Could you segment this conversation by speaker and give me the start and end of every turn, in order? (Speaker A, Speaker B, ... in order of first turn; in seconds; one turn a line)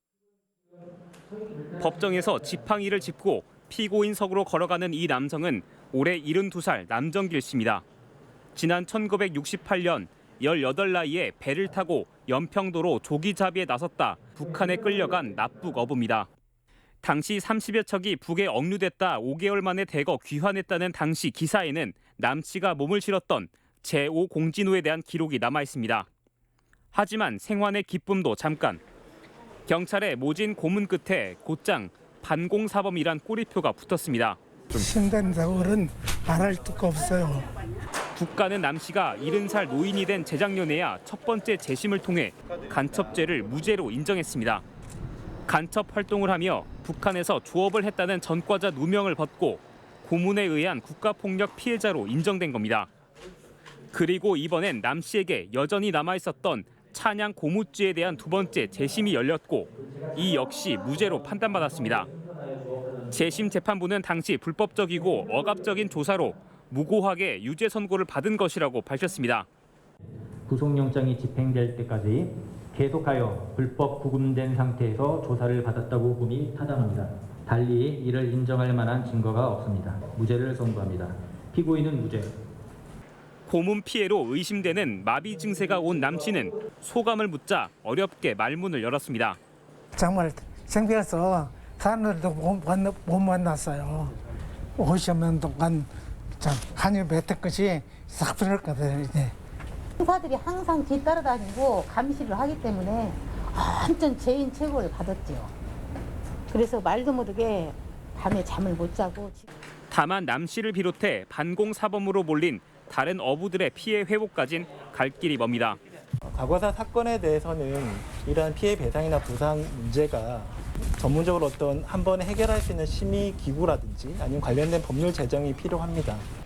Speaker A: 1.8-7.8
Speaker A: 8.5-16.3
Speaker A: 17.0-26.1
Speaker A: 26.9-28.8
Speaker A: 29.7-34.8
Speaker B: 34.7-37.5
Speaker A: 38.1-44.6
Speaker A: 45.5-52.9
Speaker A: 53.9-62.1
Speaker C: 62.3-63.0
Speaker A: 63.1-69.5
Speaker C: 70.5-82.3
Speaker A: 83.5-89.4
Speaker B: 89.9-94.1
Speaker B: 94.8-95.9
Speaker B: 96.4-99.3
Speaker D: 100.0-105.5
Speaker D: 106.5-109.5
Speaker A: 109.9-115.8
Speaker E: 116.3-126.3